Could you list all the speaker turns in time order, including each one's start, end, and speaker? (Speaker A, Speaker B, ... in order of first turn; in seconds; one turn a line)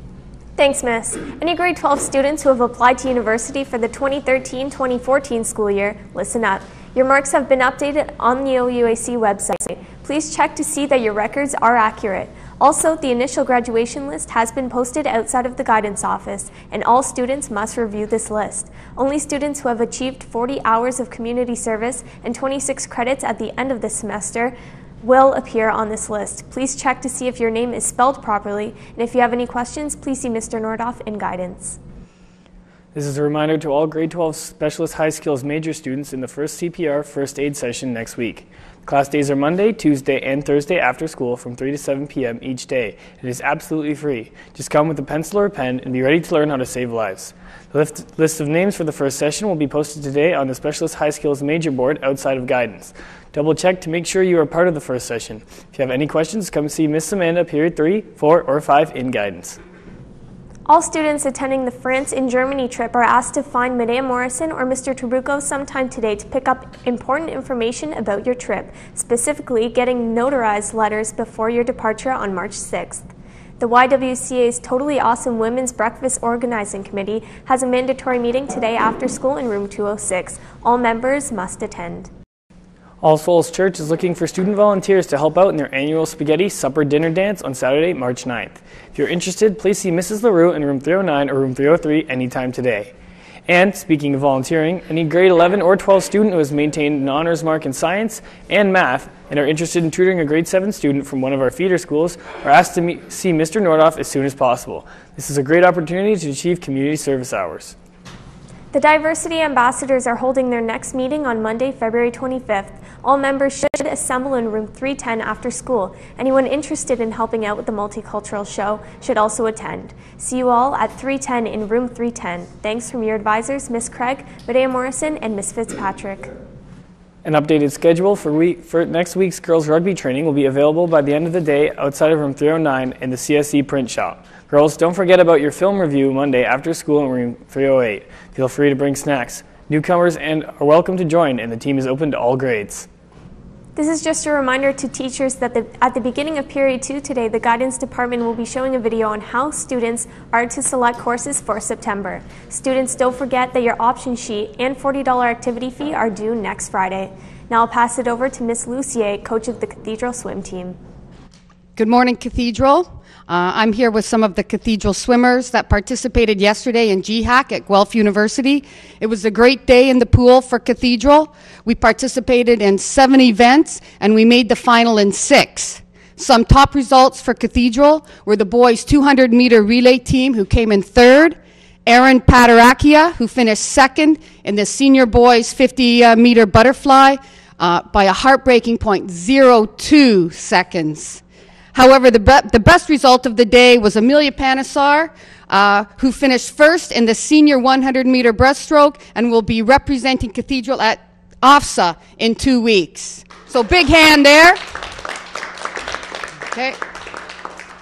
Speaker A: 0.6-31.8
Speaker B: 32.9-59.6
Speaker A: 60.7-73.1
Speaker A: 73.6-82.1
Speaker B: 83.0-92.9
Speaker B: 93.5-107.8
Speaker A: 108.7-126.3
Speaker B: 127.2-142.9
Speaker A: 143.8-160.8
Speaker C: 161.8-191.2
Speaker C: 191.7-204.6
Speaker C: 206.5-206.8